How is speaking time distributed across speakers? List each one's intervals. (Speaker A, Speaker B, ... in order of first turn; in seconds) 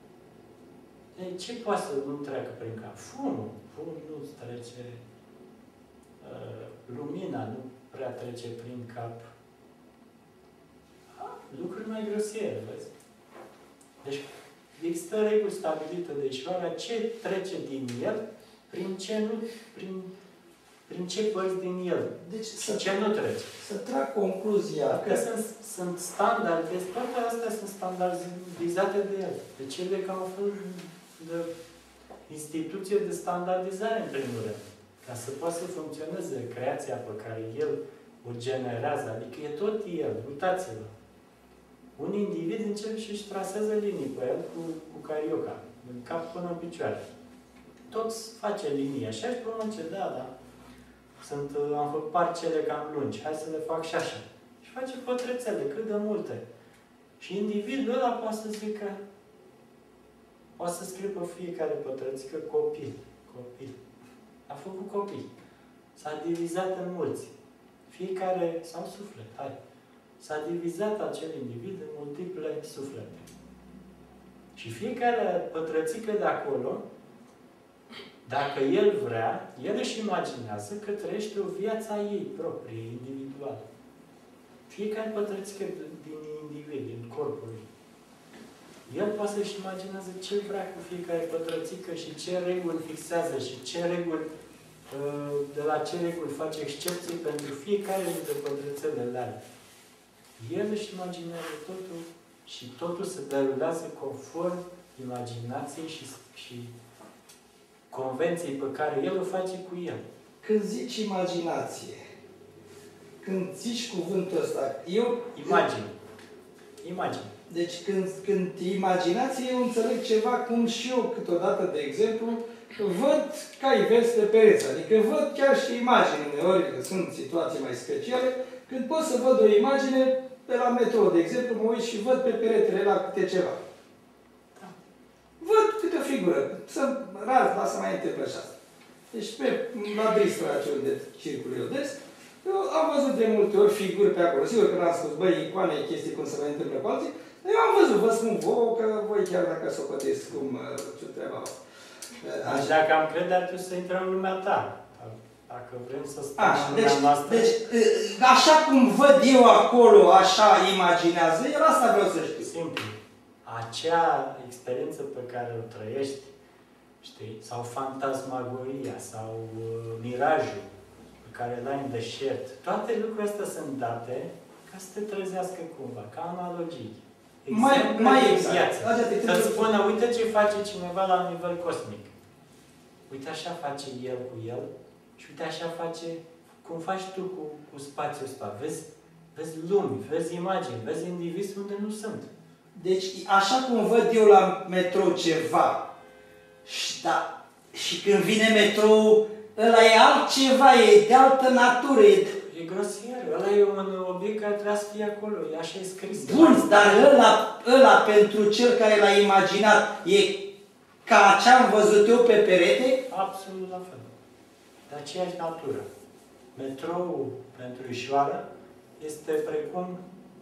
Speaker A: 1.1-5.0, 6.2-9.3, 11.1-12.9, 14.0-20.1, 20.9-23.5, 24.9-31.5, 32.3-40.9, 42.0-47.1, 47.9-50.3, 51.2-56.4, 57.2-59.0, 60.6-63.8, 64.5-65.3, 65.9-67.3, 67.9-69.6, 70.2-73.3, 74.5-76.8, 78.2-83.6, 84.7-87.7, 88.9-94.3, 94.9-99.4, 100.4-106.7, 107.9-110.0, 115.3-115.9, 116.8-117.3, 152.4-157.6, 162.4-166.3, 167.0-170.7, 171.2-182.1, 183.1-192.3, 202.4-207.3, 213.1-214.1, 214.9-215.9, 216.5-218.4, 219.0-220.0
Speaker B: 22.2-22.9, 23.6-25.2, 110.4-112.0, 113.2-115.6, 117.5-133.6, 135.4-138.5, 139.1-151.6, 152.2-152.7, 156.4-162.5, 177.5-179.7, 192.7-195.8, 196.6-202.3, 206.1-210.4, 211.0-213.0